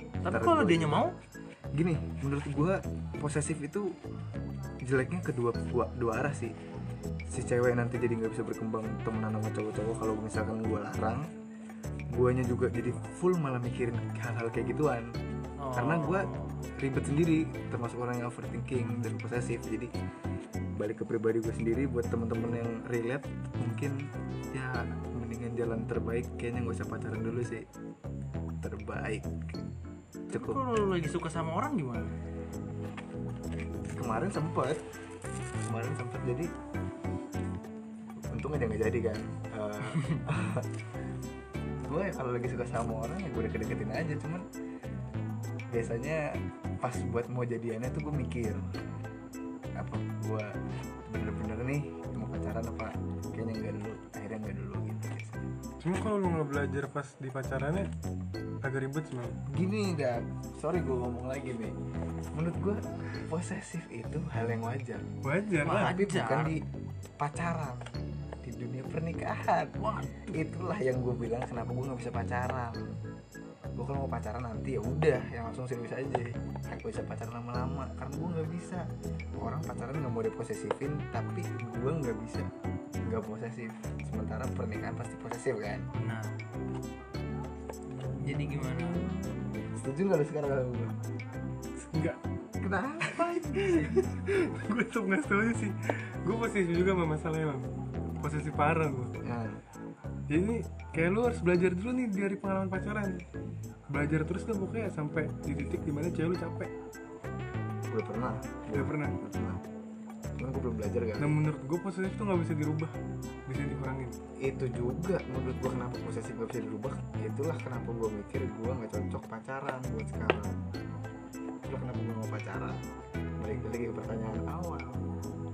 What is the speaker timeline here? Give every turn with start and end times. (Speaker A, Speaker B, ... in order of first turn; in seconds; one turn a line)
Speaker A: 0.2-1.1
Speaker B: 0.3-1.1
Speaker B: 1.8-3.9
Speaker B: 4.8-6.5
Speaker B: 7.3-11.3
Speaker B: 12.1-15.1
Speaker A: 15.6-16.5
Speaker B: 15.7-16.3
Speaker B: 16.8-19.9
Speaker B: 20.8-27.6
Speaker B: 28.6-29.4
Speaker B: 30.3-30.6
Speaker A: 30.3-32.1
Speaker B: 33.9-34.8
Speaker B: 35.6-36.5
Speaker B: 38.3-40.7
Speaker A: 39.9-40.2
Speaker B: 41.8-44.4
Speaker B: 45.7-48.7
Speaker B: 49.8-50.5
Speaker B: 51.1-55.4
Speaker C: 55.8-57.9
Speaker C: 58.6-59.4
Speaker B: 59.5-61.7
Speaker B: 62.3-65.0
Speaker C: 65.2-65.9
Speaker A: 65.6-66.5
Speaker B: 65.7-66.6
Speaker B: 67.2-67.9
Speaker B: 68.4-69.8
Speaker A: 69.8-70.3
Speaker B: 70.3-73.0
Speaker B: 73.8-78.8
Speaker B: 79.4-82.5
Speaker B: 83.0-85.9
Speaker A: 85.9-86.3
Speaker B: 88.0-91.0
Speaker A: 88.2-89.1
Speaker C: 91.8-92.2
Speaker B: 92.6-94.0
Speaker C: 93.1-97.7
Speaker C: 98.2-99.1
Speaker B: 99.2-99.6
Speaker C: 100.3-103.2
Speaker C: 103.9-106.7
Speaker B: 107.9-109.6
Speaker C: 108.7-109.1
Speaker B: 110.4-111.4
Speaker C: 111.2-112.9
Speaker C: 113.5-114.1
Speaker B: 114.4-120.6
Speaker B: 121.7-122.8
Speaker B: 123.4-125.0